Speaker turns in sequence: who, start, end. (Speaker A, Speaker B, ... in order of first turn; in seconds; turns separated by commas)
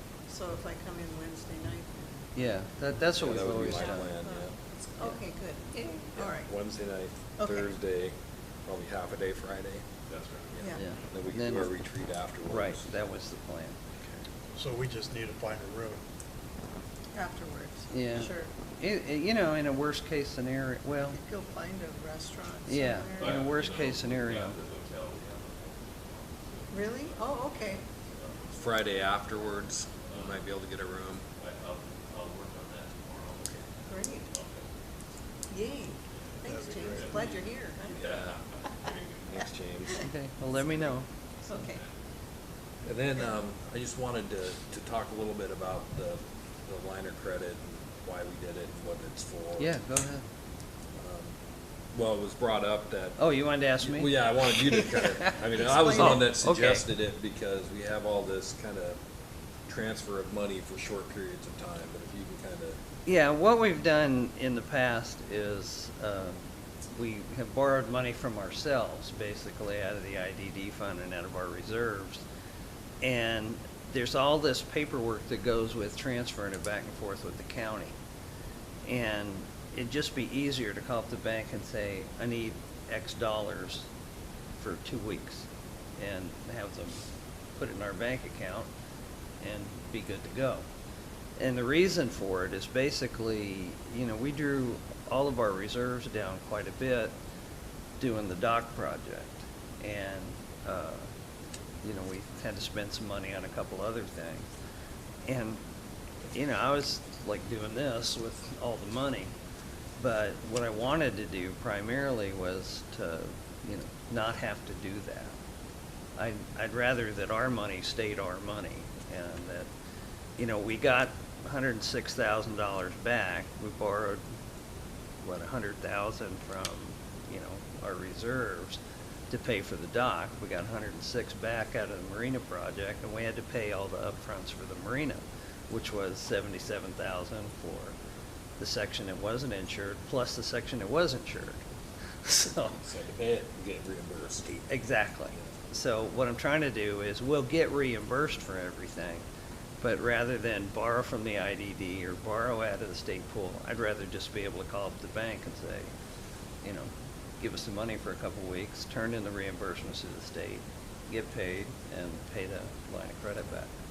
Speaker A: 0.3-2.2, Speaker B: 2.3-4.1, Speaker C: 3.2-4.5, Speaker A: 3.6-6.5, Speaker C: 6.2-8.1, Speaker A: 7.4-7.7, Speaker C: 8.7-9.8, Speaker D: 10.1-11.0, Speaker C: 10.6-12.9, Speaker B: 10.8-11.7, Speaker B: 12.5-13.8, Speaker E: 14.5-16.0, Speaker A: 17.1-18.5, Speaker B: 17.9-21.2, Speaker A: 21.1-23.4, Speaker B: 22.7-24.6, Speaker D: 23.1-28.8, Speaker A: 26.7-27.8, Speaker C: 28.6-31.2, Speaker D: 29.9-30.4, Speaker D: 31.4-34.7, Speaker A: 33.9-34.3, Speaker A: 35.5-38.0, Speaker D: 36.1-39.0, Speaker E: 36.4-37.2, Speaker C: 37.9-40.0, Speaker B: 40.0-41.0, Speaker A: 41.5-41.8, Speaker D: 41.5-41.9, Speaker C: 42.8-49.7, Speaker B: 49.6-50.2, Speaker C: 50.9-51.3, Speaker C: 51.9-53.2, Speaker B: 53.2-55.4, Speaker C: 53.8-59.0, Speaker A: 55.5-56.2, Speaker B: 55.9-56.8, Speaker C: 59.7-62.8, Speaker B: 63.0-66.4, Speaker B: 66.9-72.2, Speaker B: 73.0-78.0, Speaker B: 78.8-83.9, Speaker B: 84.6-85.5, Speaker B: 86.0-87.0, Speaker B: 87.5-88.7, Speaker B: 89.4-90.6, Speaker B: 91.4-97.1, Speaker B: 98.0-101.1, Speaker B: 101.8-104.5, Speaker B: 105.2-105.6, Speaker B: 106.3-109.3, Speaker B: 110.0-115.4, Speaker B: 116.2-119.7, Speaker B: 120.4-124.2, Speaker B: 125.2-138.0, Speaker B: 138.6-141.6, Speaker B: 142.2-142.8, Speaker C: 142.8-144.5, Speaker B: 144.4-149.2, Speaker B: 149.8-155.9, Speaker B: 156.6-163.7